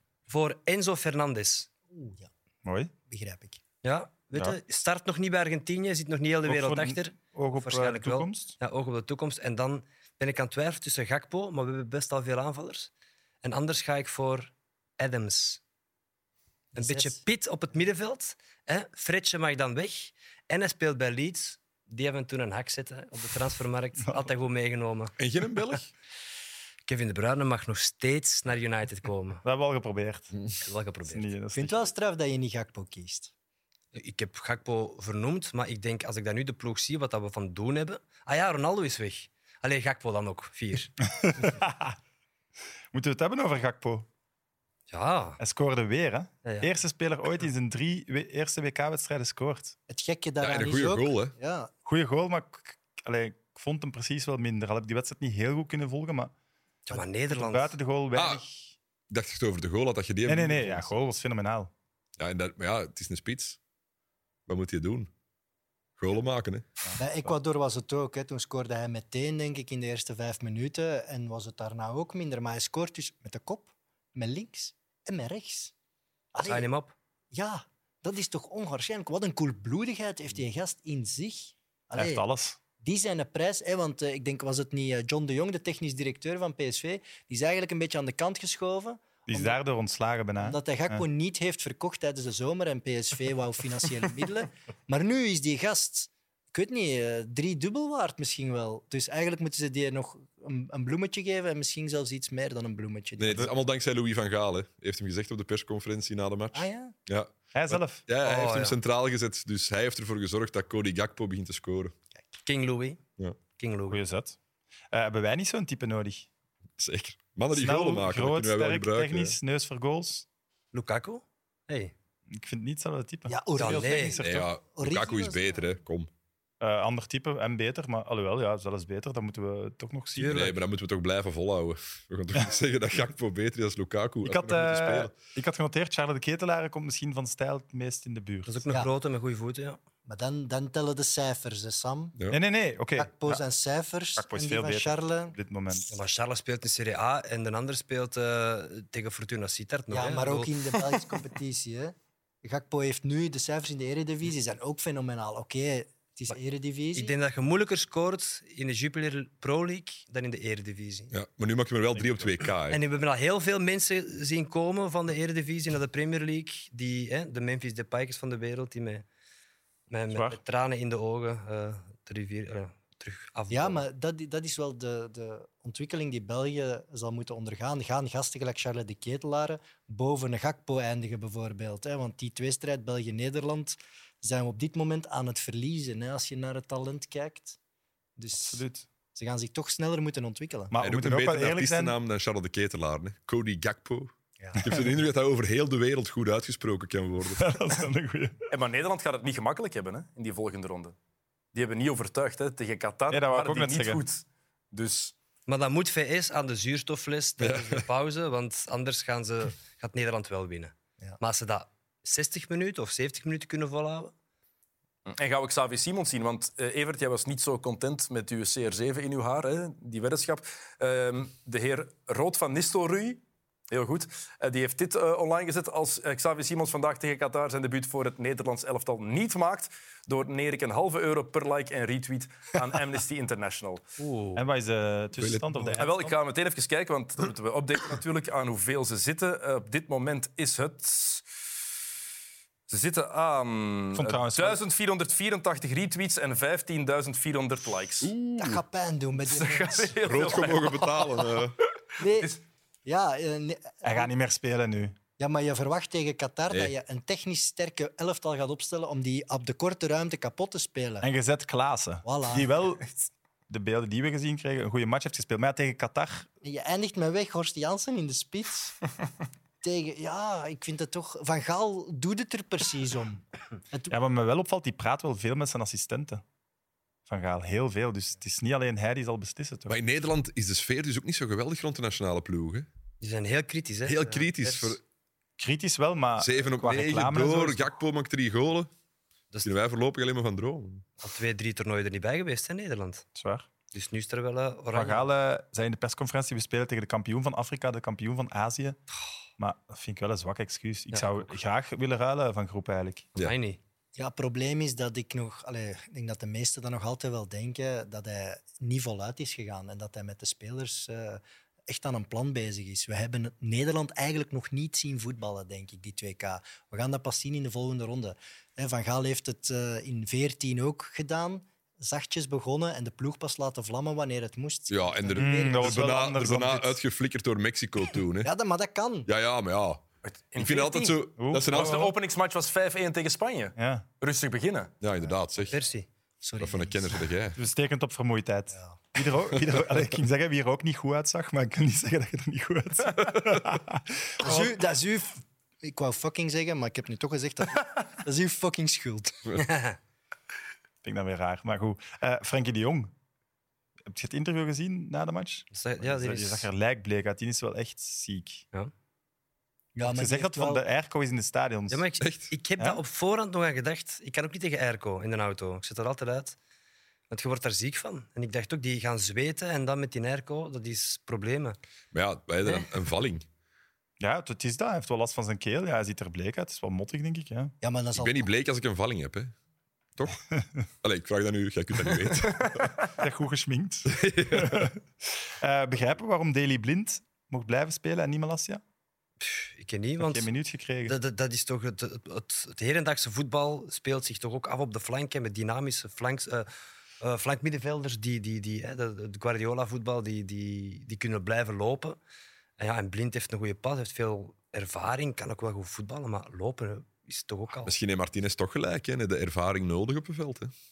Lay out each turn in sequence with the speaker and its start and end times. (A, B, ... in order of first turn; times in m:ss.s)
0:00.3-0:01.7 A
0:01.9-0:02.3 B
0:02.6-0:02.9 C
0:03.1-0:03.6 B
0:03.8-0:12.9 A
0:06.4-0:08.6 C
0:13.4-0:15.6 A
0:16.7-0:17.2 B
0:16.8-0:25.2 A
0:25.2-0:25.9 D
0:26.9-0:29.4 A
0:29.4-0:30.4 C
0:30.6-0:31.3 A
0:31.1-0:31.9 C
0:31.5-0:33.3 B
0:33.9-0:41.5 A
0:41.2-0:42.0 C
0:42.9-0:44.1 C
0:44.9-0:45.4 A
0:45.4-0:49.8 C
0:46.4-0:46.7 A
0:49.9-0:51.7 B
0:50.4-0:51.4 D
0:51.8-0:56.3 C
0:56.9-0:57.8 A
0:56.9-0:58.7 C
0:58.1-0:58.4 D
0:59.1-1:00.9 D
1:00.3-1:01.7 C
1:02.2-1:03.6 D
1:04.5-1:05.1 D
1:06.0-1:06.7 D
1:07.0-1:15.7 B
1:16.3-1:16.7 B
1:16.4-1:16.9 A
1:17.3-1:22.2 B
1:22.0-1:22.6 C
1:22.8-1:29.6 B
1:29.3-1:31.0 C
1:30.4-1:43.5 B
1:43.2-1:52.0 D
1:46.5-1:47.0 B
1:47.5-1:48.0 C
1:48.2-1:48.8 A
1:52.4-1:53.0 A
1:53.5-1:54.0 A
1:53.9-1:54.4 C
1:54.9-1:56.3 C
1:56.8-1:59.4 D
1:57.5-2:00.3 C
2:00.7-2:01.9 A
2:02.3-2:04.5 C
2:03.3-2:05.7 B
2:03.6-2:04.2 A
2:04.2-2:06.1 D
2:06.6-2:10.5 C
2:10.2-2:10.6 A
2:10.3-2:15.1 D
2:14.2-2:18.6 C
2:18.5-2:19.8 A
2:20.1-2:22.2 B
2:22.3-2:23.4 C
2:23.0-2:25.4 B
2:24.2-2:25.9 C
2:25.9-2:31.0 A
2:29.9-2:37.2 B
2:37.0-2:41.1 A
2:41.1-2:42.8 D
2:42.0-2:42.3 C
2:42.7-2:49.0 A
2:49.9-2:53.8 A
2:50.1-2:50.4 C
2:53.5-3:07.6 B
3:08.2-3:08.6 B
3:08.4-3:08.9 C
3:09.2-3:10.7 B
3:10.7-3:12.0 C
3:10.8-3:17.5 D
3:17.4-3:18.4 C
3:18.5-3:21.0 E
3:21.5-3:25.1 E
3:23.1-3:24.0 C
3:25.5-3:34.1 A
3:27.4-3:27.8 D
3:35.1-3:53.8 E
3:54.0-3:54.4 A
3:54.4-3:56.2 C
3:55.2-3:55.8 D
3:55.8-4:01.2 E
4:02.7-4:08.1 E
4:03.9-4:04.6 C
4:08.0-4:08.6 D
4:08.4-4:10.3 B
4:09.2-4:11.4 E
4:10.1-4:11.6 D
4:12.0-4:14.1 B
4:13.8-4:15.0 C
4:15.2-4:21.1 B
4:16.5-4:16.8 D
4:21.0-4:22.9 C
4:22.0-4:22.5 B
4:23.5-4:26.3 C
4:26.4-4:28.8 B
4:29.6-4:33.9 B
4:33.9-4:36.2 C
4:37.1-4:39.8 C
4:39.7-4:42.7 D
4:43.0-4:44.8 A
4:43.8-4:44.8 D
4:45.4-4:47.7 C
4:46.2-4:48.7 D
4:49.4-4:50.9 D
4:51.0-4:53.1 A
4:53.2-4:53.5 C
4:53.7-4:55.0 A
4:54.7-4:58.8 C
4:59.4-5:03.1 C
5:00.9-5:01.3 A
5:03.2-5:03.6 A
5:04.0-5:26.0 B
5:24.7-5:28.3 D
5:25.2-5:26.8 C
5:28.2-5:29.1 B
5:29.1-5:29.8 D
5:30.0-5:34.7 E
5:30.4-5:31.8 D
5:31.2-5:31.9 C
5:33.6-5:33.8 C
5:34.8-5:35.6 D
5:35.5-5:35.9 A
5:36.2-5:37.0 B
5:36.4-5:37.4 D
5:37.4-5:44.5 C
5:44.2-5:49.3 B
5:49.4-5:49.8 A
5:50.8-5:52.9 C
5:53.9-5:58.4 C
5:55.5-5:56.5 A
5:59.8-6:00.6 B
5:59.8-6:01.8 C
6:01.7-6:06.4 A
6:02.0-6:02.3 D
6:02.6-6:02.8 C
6:07.1-6:11.6 A
6:11.9-6:13.2 D
6:14.0-6:17.6 C
6:17.6-6:18.3 B
6:18.0-6:19.3 D
6:20.0-6:20.2 D
6:20.8-6:22.7 D
6:23.0-6:28.6 C
6:23.9-6:24.7 D
6:29.2-6:30.3 A
6:30.0-6:31.0 C
6:30.8-6:36.5 A
6:37.0-6:42.0 A
6:42.6-6:47.7 A
6:47.6-6:50.5 D